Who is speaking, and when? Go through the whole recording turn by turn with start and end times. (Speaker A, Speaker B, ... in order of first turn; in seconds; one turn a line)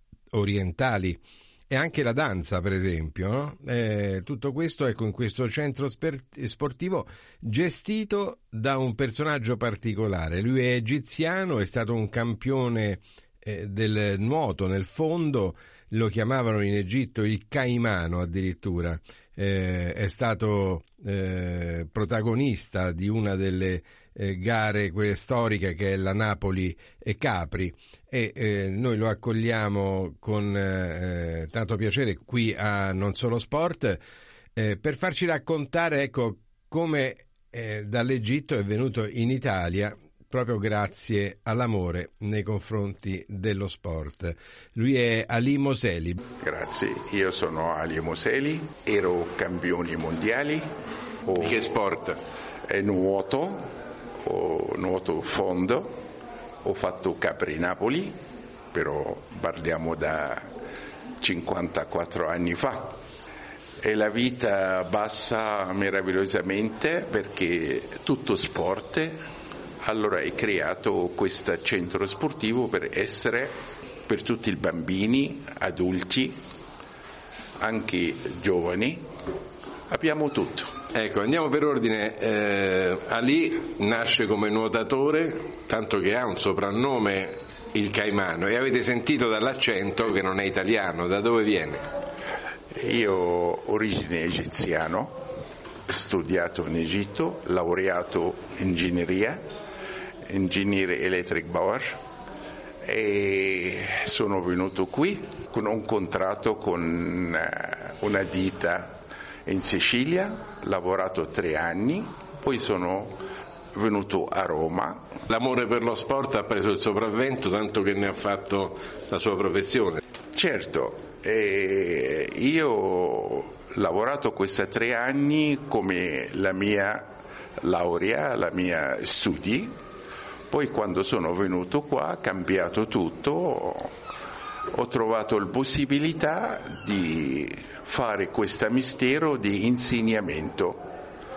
Speaker A: 0.3-34.0
Speaker A: 34.5-46.2
Speaker B: 46.4-50.6
Speaker B: 51.2-51.6
Speaker A: 51.4-52.2
Speaker B: 52.7-53.7
Speaker B: 54.2-56.0
Speaker B: 56.6-58.1
Speaker B: 58.7-60.4
Speaker B: 61.2-63.0
Speaker B: 63.8-69.1
Speaker B: 69.8-73.5
Speaker B: 74.1-76.3
Speaker B: 77.6-79.0
Speaker B: 79.9-80.7
Speaker A: 80.9-91.8
Speaker B: 92.7-95.2
Speaker B: 95.9-99.4
Speaker B: 100.3-102.0
Speaker B: 102.8-113.2
Speaker B: 113.7-115.1
Speaker A: 115.3-120.0
Speaker B: 120.3-127.1
Speaker B: 127.6-129.7
Speaker B: 130.5-133.9
Speaker B: 134.7-140.8